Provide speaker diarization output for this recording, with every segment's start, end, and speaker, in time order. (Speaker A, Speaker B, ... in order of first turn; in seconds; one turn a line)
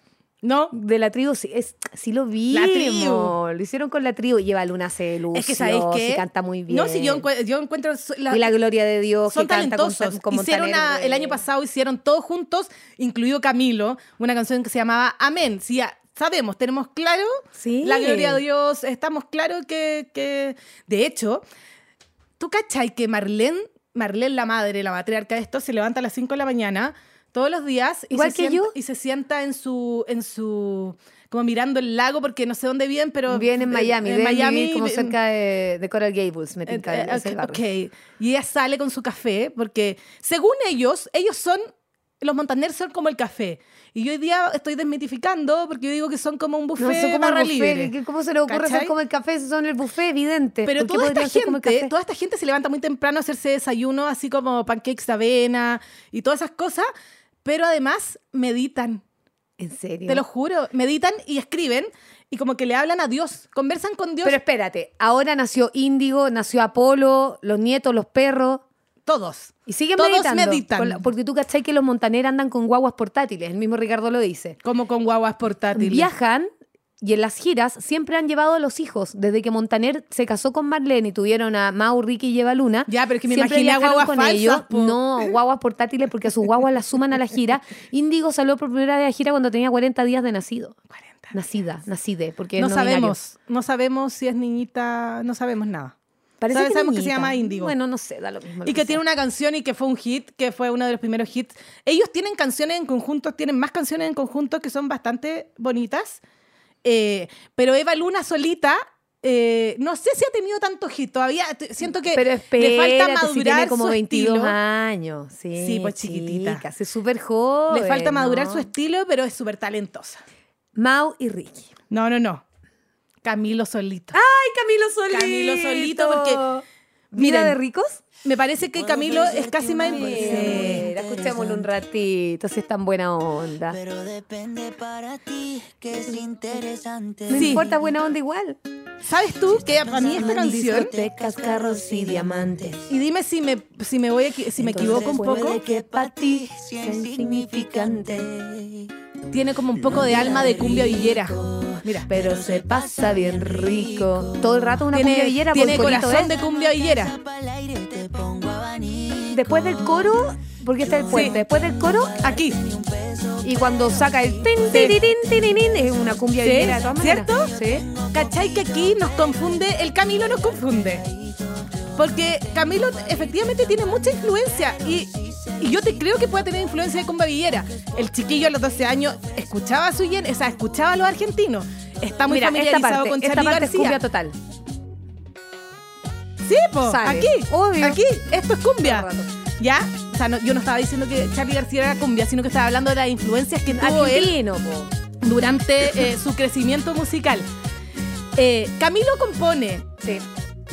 Speaker A: 0.4-0.7
Speaker B: 0.7-7.3
Speaker A: 2.5-3.3
Speaker A: 5.3-8.5
Speaker B: 8.3-11.4
Speaker A: 9.3-21.4
Speaker B: 17.6-18.4
Speaker A: 22.4-35.1
Speaker B: 28.1-28.7
Speaker B: 33.3-37.6
Speaker A: 36.7-41.6
Speaker A: 42.2-47.9
Speaker B: 46.8-51.9
Speaker A: 48.5-48.9
Speaker A: 50.6-56.9
Speaker A: 57.4-59.0
Speaker B: 59.6-60.2
Speaker A: 60.1-64.4
Speaker B: 64.2-68.6
Speaker A: 69.1-71.0
Speaker B: 69.7-74.6
Speaker A: 74.6-76.1
Speaker B: 75.7-90.8
Speaker A: 82.9-85.3
Speaker A: 91.0-91.3
Speaker B: 91.3-93.2
Speaker A: 92.6-95.9
Speaker B: 96.4-99.0
Speaker A: 96.5-97.7
Speaker A: 98.6-106.2
Speaker A: 106.8-114.5
Speaker B: 112.1-118.7
Speaker A: 115.5-116.6
Speaker A: 117.7-120.2
Speaker B: 120.8-121.7
Speaker A: 121.9-122.4
Speaker A: 123.2-124.2
Speaker B: 124.1-128.0
Speaker A: 125.1-126.4
Speaker A: 127.1-127.6
Speaker A: 128.2-130.9
Speaker C: 128.8-131.7
Speaker B: 129.8-133.8
Speaker C: 133.7-137.9
Speaker B: 137.3-138.6
Speaker A: 137.3-137.7
Speaker A: 139.1-140.9
Speaker C: 139.5-142.8
Speaker B: 139.9-142.8
Speaker A: 142.9-145.6
Speaker B: 144.6-148.4
Speaker C: 144.7-148.9
Speaker A: 149.3-152.1
Speaker C: 149.7-154.8
Speaker B: 149.9-151.0
Speaker B: 152.1-156.3
Speaker A: 154.9-157.2
Speaker C: 155.9-160.0
Speaker B: 159.3-162.1
Speaker C: 160.8-176.8
Speaker A: 161.1-161.4
Speaker A: 162.2-162.6
Speaker B: 163.4-167.9
Speaker A: 164.7-165.0
Speaker A: 166.4-167.5
Speaker A: 168.1-171.1
Speaker A: 171.9-184.0
Speaker C: 177.7-179.6
Speaker B: 182.3-184.4
Speaker A: 186.4-189.1
Speaker B: 186.8-188.0
Speaker B: 188.8-189.3
Speaker A: 189.6-194.3
Speaker B: 193.7-194.9
Speaker A: 195.2-197.5
Speaker A: 198.4-199.9